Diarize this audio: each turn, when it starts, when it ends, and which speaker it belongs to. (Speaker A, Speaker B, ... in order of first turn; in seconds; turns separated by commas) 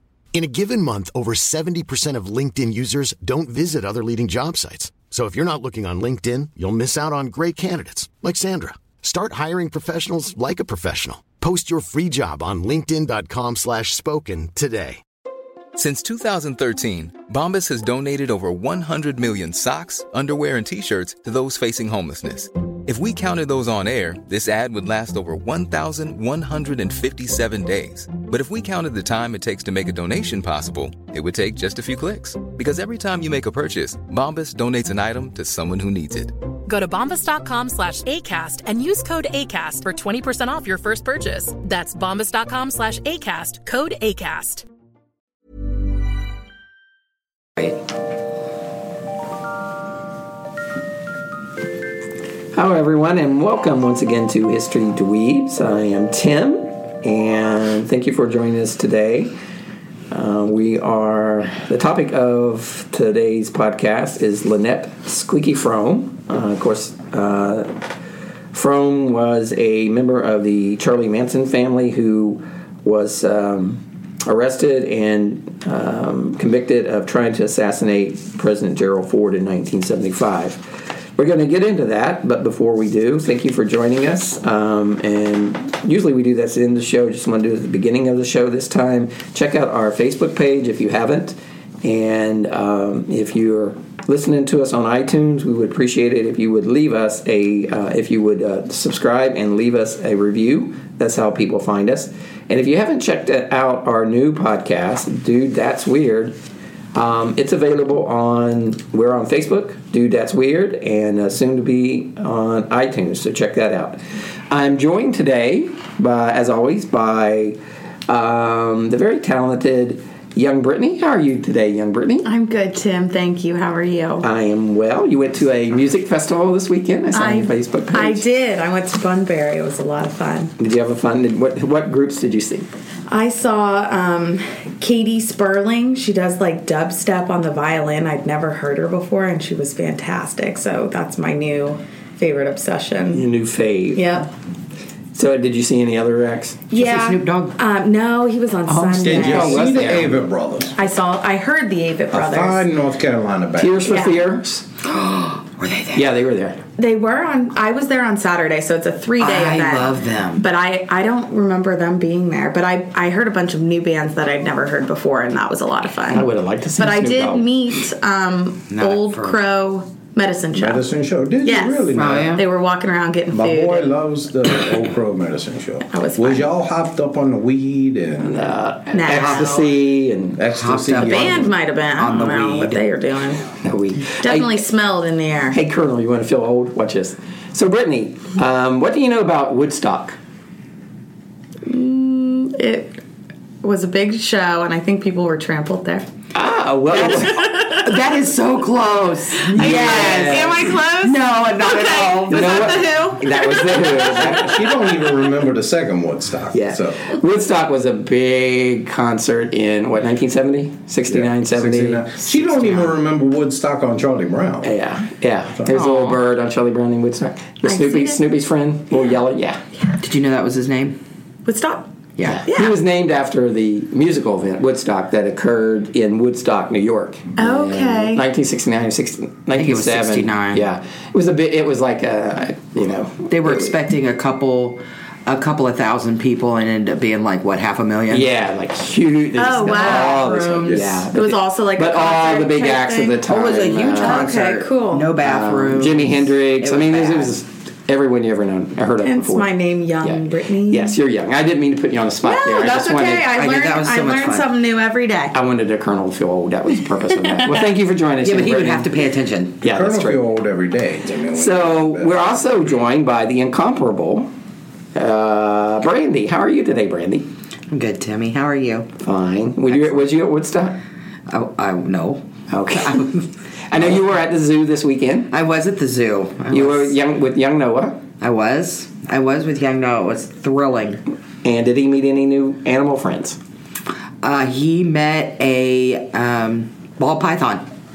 Speaker A: 0.3-15.0, Speaker B: 15.8-36.3, Speaker C: 36.7-44.6, Speaker D: 52.5-59.3, Speaker D: 60.1-67.7, Speaker D: 68.5-80.6, Speaker D: 81.2-106.3, Speaker D: 106.9-114.0, Speaker D: 114.5-122.3, Speaker E: 122.2-124.2, Speaker D: 124.2-128.2, Speaker E: 127.1-130.5, Speaker D: 130.6-132.7, Speaker E: 133.1-143.2, Speaker D: 143.1-144.2, Speaker E: 143.9-144.2, Speaker D: 145.1-146.6, Speaker E: 146.7-149.9, Speaker F: 146.7-147.6, Speaker D: 148.7-150.2, Speaker G: 149.0-150.8, Speaker E: 150.8-152.7, Speaker G: 152.1-154.1, Speaker D: 153.6-154.6, Speaker E: 153.9-154.2, Speaker F: 154.8-156.0, Speaker D: 155.9-156.6, Speaker E: 156.8-170.8, Speaker F: 159.2-160.4, Speaker D: 166.1-167.5, Speaker F: 168.7-169.4, Speaker G: 170.5-172.4, Speaker E: 171.4-174.0, Speaker F: 171.9-172.4, Speaker G: 173.3-178.5, Speaker E: 175.9-176.5, Speaker D: 178.2-180.4, Speaker E: 178.9-179.7, Speaker F: 179.1-179.4, Speaker G: 180.4-181.5, Speaker F: 180.5-182.8, Speaker E: 180.9-183.5, Speaker D: 183.6-184.6, Speaker E: 184.2-185.6, Speaker D: 185.5-190.2, Speaker E: 191.7-193.0, Speaker E: 193.6-196.1, Speaker D: 196.3-197.4, Speaker E: 196.9-197.8, Speaker F: 197.8-202.8, Speaker E: 199.4-204.7, Speaker D: 199.5-200.7, Speaker D: 202.3-204.6, Speaker G: 204.1-207.1, Speaker D: 206.5-212.1, Speaker G: 211.1-214.7, Speaker D: 214.6-219.6, Speaker F: 215.7-216.2, Speaker E: 217.6-218.2, Speaker F: 220.0-221.0, Speaker E: 221.4-221.9, Speaker F: 222.2-222.4, Speaker D: 222.3-233.7, Speaker E: 222.5-222.8, Speaker E: 227.4-228.2, Speaker F: 229.6-230.6, Speaker F: 233.3-238.2, Speaker D: 238.1-244.3, Speaker E: 239.3-245.1, Speaker F: 239.9-240.8, Speaker G: 240.7-241.0, Speaker F: 243.3-247.3, Speaker D: 245.2-249.5, Speaker E: 249.0-251.0, Speaker D: 250.0-253.3, Speaker E: 252.2-255.3, Speaker F: 253.3-254.5, Speaker D: 255.3-258.9, Speaker F: 258.2-259.6, Speaker D: 259.6-260.2, Speaker G: 259.6-262.1, Speaker D: 261.3-264.3, Speaker D: 264.9-267.2, Speaker F: 267.7-268.9, Speaker D: 269.0-270.8, Speaker F: 271.3-273.2, Speaker D: 272.5-273.2, Speaker D: 273.7-275.3, Speaker F: 275.3-276.9, Speaker D: 276.5-278.0, Speaker F: 278.2-281.0, Speaker D: 281.4-283.4, Speaker F: 284.2-287.6